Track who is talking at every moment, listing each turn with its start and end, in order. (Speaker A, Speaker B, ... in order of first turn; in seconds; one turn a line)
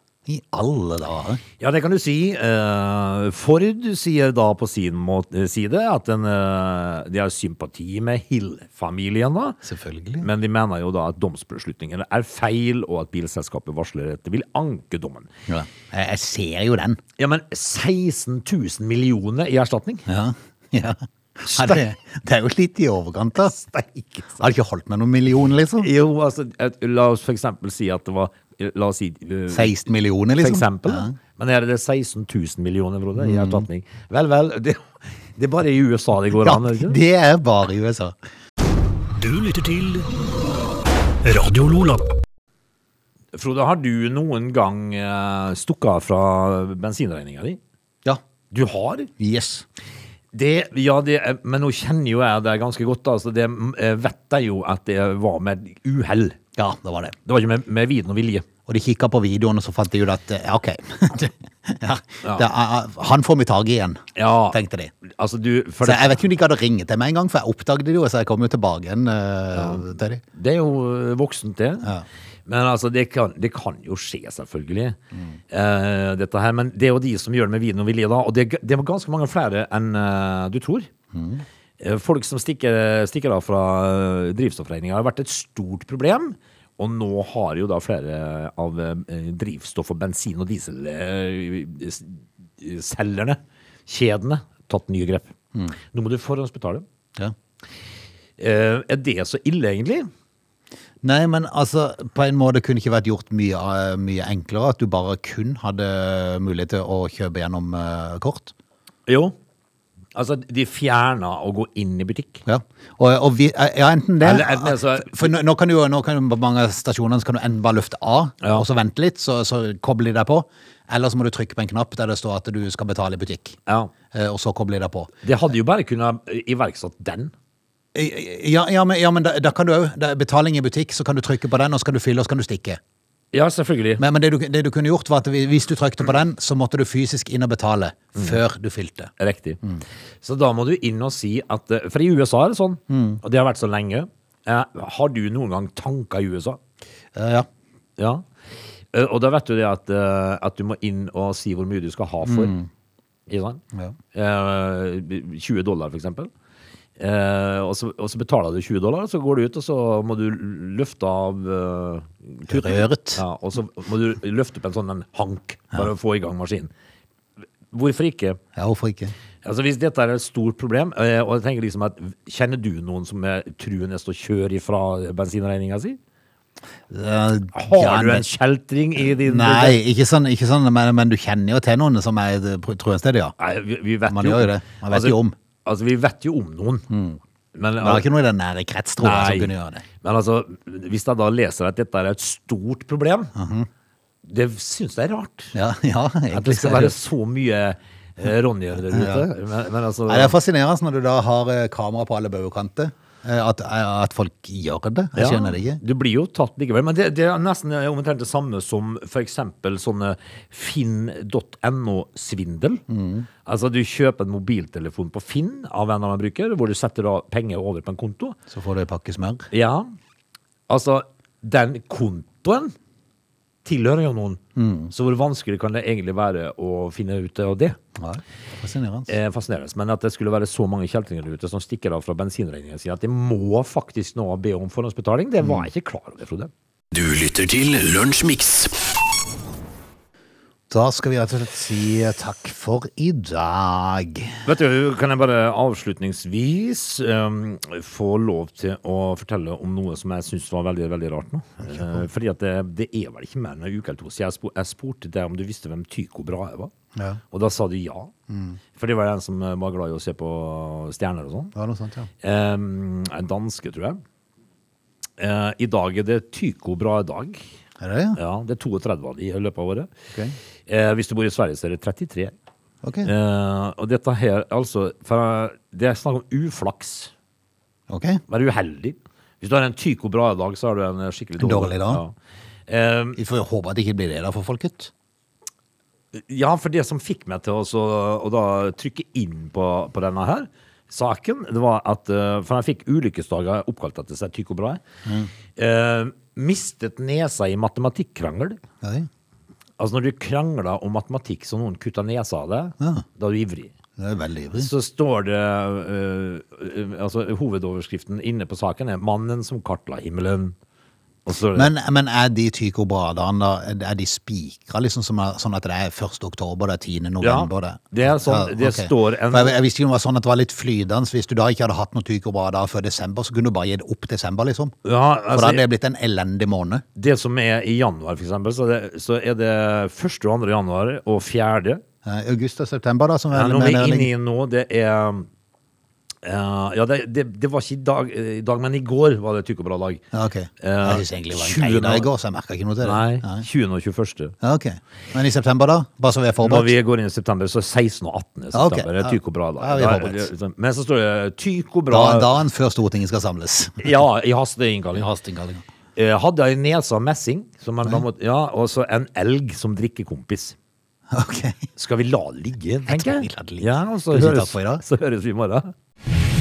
Speaker A: 0.3-1.4
Speaker B: 1.6-9.6
Speaker A: 9.6-10.3
Speaker B: 10.2-15.3
Speaker A: 15.5-17.0
Speaker B: 17.2-20.1
Speaker A: 20.1-23.5
Speaker B: 21.5-21.8
Speaker B: 23.4-24.4
Speaker A: 24.4-25.9
Speaker B: 25.8-29.8
Speaker A: 29.5-31.2
Speaker B: 30.4-37.0
Speaker A: 33.2-33.7
Speaker A: 36.4-38.1
Speaker C: 39.2-40.1
Speaker C: 41.2-42.1
Speaker B: 43.3-47.6
Speaker B: 48.5-49.1
Speaker A: 49.2-49.6
Speaker B: 50.3-56.4
Speaker A: 56.6-57.2
Speaker B: 57.3-58.5
Speaker A: 58.7-64.9
Speaker B: 64.2-64.6
Speaker B: 65.1-66.2
Speaker A: 65.8-70.2
Speaker B: 69.5-69.8
Speaker B: 70.4-71.9
Speaker B: 72.5-75.0
Speaker B: 75.5-80.9
Speaker A: 81.1-81.4
Speaker B: 81.8-95.3
Speaker B: 95.9-96.8
Speaker B: 98.4-100.1
Speaker A: 101.0-108.5
Speaker B: 109.1-109.3
Speaker B: 110.1-112.4
Speaker A: 112.5-123.6
Speaker B: 114.2-115.3
Speaker B: 123.7-123.9
Speaker A: 124.1-125.1
Speaker B: 125.2-127.3
Speaker A: 128.0-132.8
Speaker B: 133.3-134.0
Speaker A: 134.0-139.1
Speaker B: 139.2-139.6
Speaker B: 140.2-146.6
Speaker A: 142.9-143.2
Speaker A: 147.2-147.5
Speaker B: 148.0-148.3
Speaker B: 148.9-152.6
Speaker A: 152.2-152.7
Speaker B: 153.3-153.6
Speaker B: 154.1-156.3
Speaker B: 157.0-166.7
Speaker A: 162.5-163.2
Speaker B: 167.7-168.4
Speaker A: 168.6-169.1
Speaker B: 169.4-176.0
Speaker A: 176.9-178.3
Speaker B: 177.5-179.8
Speaker A: 179.2-183.3
Speaker B: 183.4-186.9
Speaker A: 184.1-185.3
Speaker A: 186.9-187.2
Speaker B: 187.5-188.1
Speaker A: 187.8-189.8
Speaker B: 189.0-193.3
Speaker A: 193.3-193.7
Speaker B: 194.2-195.5
Speaker A: 195.5-197.0
Speaker B: 196.3-200.4
Speaker A: 198.9-199.2
Speaker A: 200.1-205.8
Speaker B: 205.2-212.8
Speaker A: 212.9-213.3
Speaker B: 213.4-218.4
Speaker A: 218.5-219.5
Speaker B: 219.5-219.9
Speaker B: 220.7-222.8
Speaker B: 223.7-227.8
Speaker A: 224.6-224.9
Speaker A: 228.0-229.1
Speaker B: 229.1-236.5
Speaker A: 235.4-235.7
Speaker C: 236.9-238.8
Speaker A: 240.7-244.4
Speaker B: 244.4-256.7
Speaker A: 251.7-252.0
Speaker A: 256.9-257.2
Speaker B: 257.3-258.1
Speaker A: 258.3-258.6
Speaker B: 258.8-261.5
Speaker A: 261.5-262.1
Speaker B: 262.2-264.0
Speaker B: 265.2-267.4
Speaker A: 267.8-268.2
Speaker B: 268.2-269.9
Speaker B: 270.7-272.3
Speaker A: 272.8-273.1
Speaker B: 273.0-277.1
Speaker A: 277.9-278.2
Speaker B: 278.3-282.1
Speaker A: 281.4-282.0
Speaker B: 282.7-283.2
Speaker A: 283.2-284.9
Speaker B: 286.1-294.8
Speaker A: 295.1-295.3
Speaker B: 295.6-298.6
Speaker A: 298.8-299.1
Speaker B: 299.8-303.7
Speaker A: 304.0-304.7
Speaker B: 304.6-310.6
Speaker B: 311.3-311.7
Speaker A: 311.5-324.8
Speaker B: 317.2-319.6
Speaker B: 324.9-325.7
Speaker A: 325.3-326.8
Speaker B: 326.9-331.8
Speaker A: 332.1-334.1
Speaker B: 333.3-335.3
Speaker B: 336.2-340.0
Speaker A: 340.1-343.5
Speaker B: 340.6-342.1
Speaker B: 342.8-344.4
Speaker A: 344.4-346.7
Speaker B: 346.4-352.3
Speaker A: 348.5-350.3
Speaker A: 351.9-353.9
Speaker B: 353.8-355.1
Speaker A: 354.9-355.6
Speaker B: 356.0-360.6
Speaker A: 361.1-361.7
Speaker B: 361.8-365.7
Speaker A: 362.9-364.8